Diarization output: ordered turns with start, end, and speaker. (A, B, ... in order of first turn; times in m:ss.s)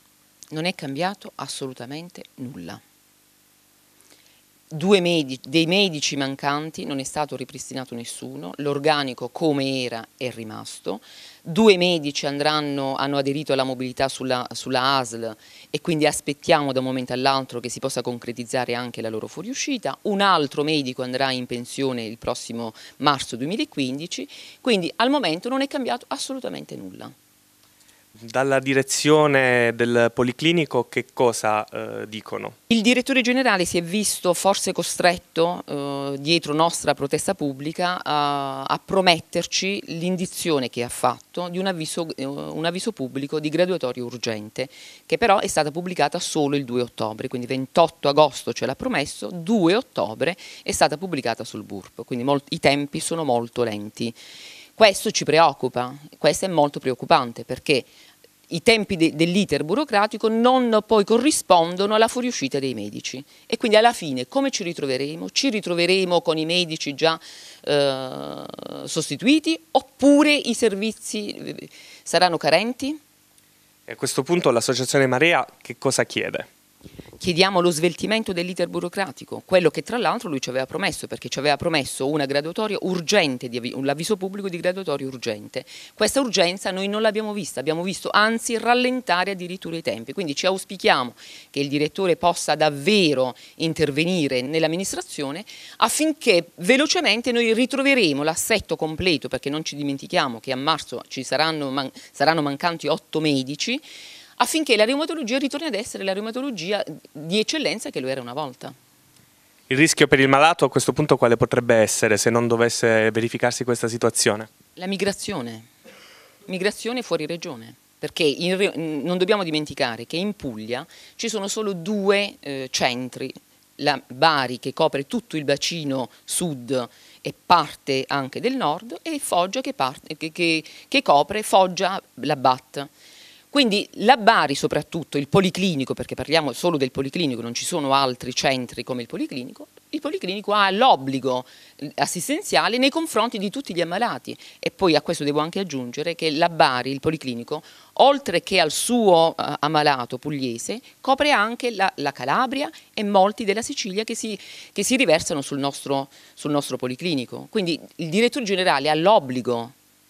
0:00.5-0:02.8 A
0:04.7-0:27.1 A
0:28.3-0:32.6 B
0:32.7-0:54.2 A
0:54.8-0:57.9 A
0:58.5-1:13.0 A
1:13.9-1:16.5 B
1:17.2-1:43.8 A
1:44.4-1:48.8 A
1:49.7-1:54.5 B
1:54.8-1:55.7 A
1:56.5-2:12.9 A
2:13.5-2:39.7 A